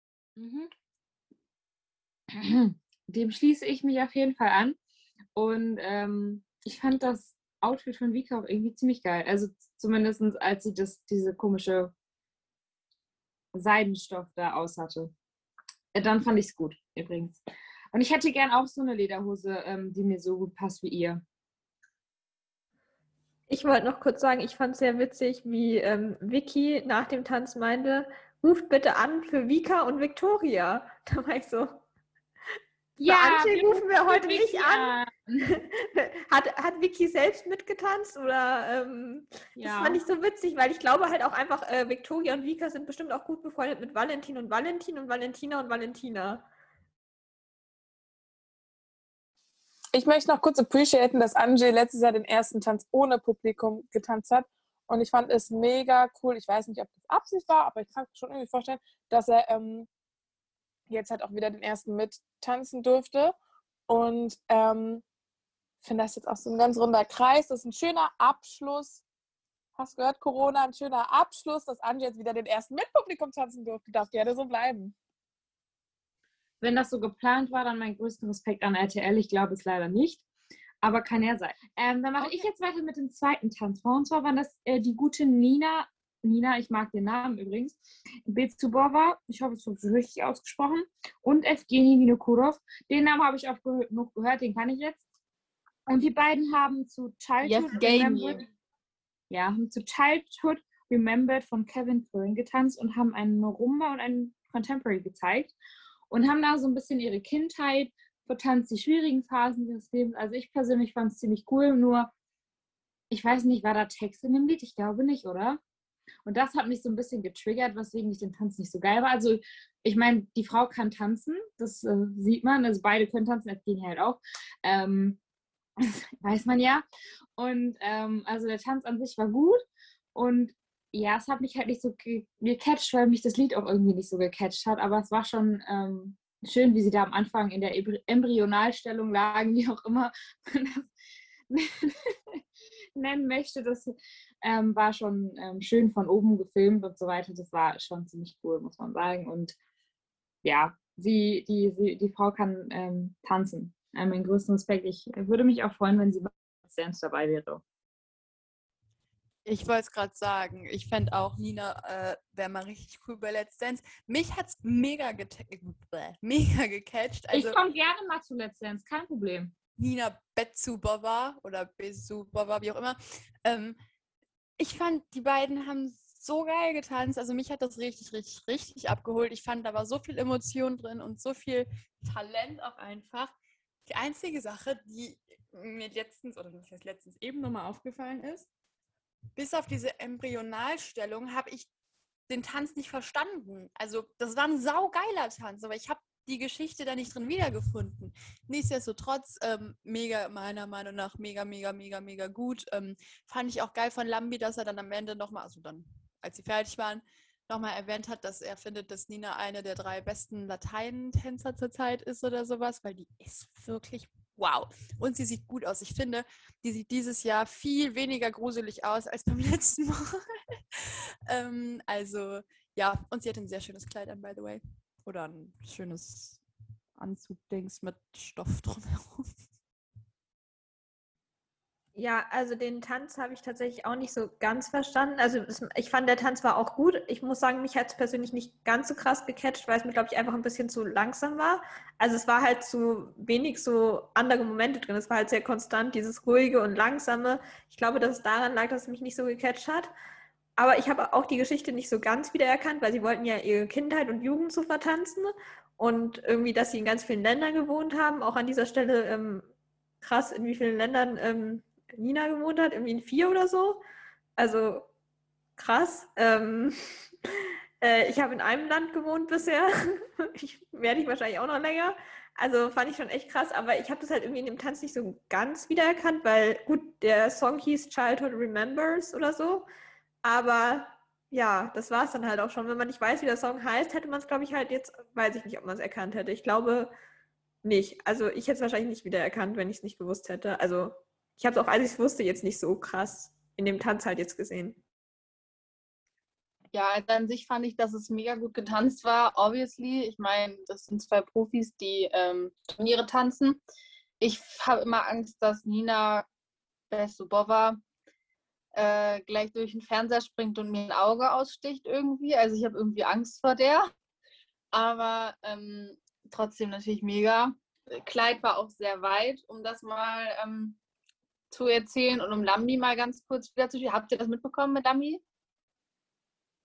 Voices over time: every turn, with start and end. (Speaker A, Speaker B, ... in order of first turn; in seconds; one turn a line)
Speaker A: 0.4-0.7
Speaker A: 2.3-4.8
Speaker A: 5.3-11.9
Speaker A: 13.5-15.1
Speaker A: 15.9-17.4
Speaker A: 17.9-21.2
Speaker B: 23.5-31.8
Speaker A: 33.0-35.5
Speaker B: 33.0-34.9
Speaker B: 35.5-46.4
Speaker A: 39.6-40.0
Speaker C: 49.9-59.9
Speaker C: 60.9-63.3
Speaker C: 63.9-65.0
Speaker C: 65.8-69.0
Speaker C: 69.8-74.9
Speaker A: 76.6-80.2
Speaker A: 80.8-95.0
Speaker A: 95.9-98.5
Speaker D: 97.4-98.4
Speaker A: 99.3-105.5
Speaker A: 106.1-112.1
Speaker A: 113.1-115.6
Speaker A: 116.2-125.2
Speaker A: 125.8-126.8
Speaker A: 127.4-129.6
Speaker A: 130.1-140.9
Speaker A: 141.5-142.4
Speaker A: 142.9-149.6
Speaker A: 150.4-157.6
Speaker E: 159.4-167.6
Speaker A: 167.3-169.5
Speaker E: 169.8-173.8
Speaker E: 174.6-183.3
Speaker E: 183.9-188.5
Speaker E: 189.3-191.7
Speaker E: 192.3-220.2
Speaker E: 220.7-226.4
Speaker E: 227.0-229.2
Speaker B: 231.9-249.9
Speaker B: 250.6-259.5
Speaker B: 260.0-263.8
Speaker B: 264.4-264.9
Speaker B: 265.6-266.8
Speaker B: 267.8-279.6
Speaker B: 280.2-286.9
Speaker B: 287.6-294.8
Speaker D: 296.7-303.6
Speaker D: 304.2-306.3
Speaker D: 306.9-307.8
Speaker D: 308.7-313.9
Speaker D: 314.7-320.8
Speaker D: 321.5-325.2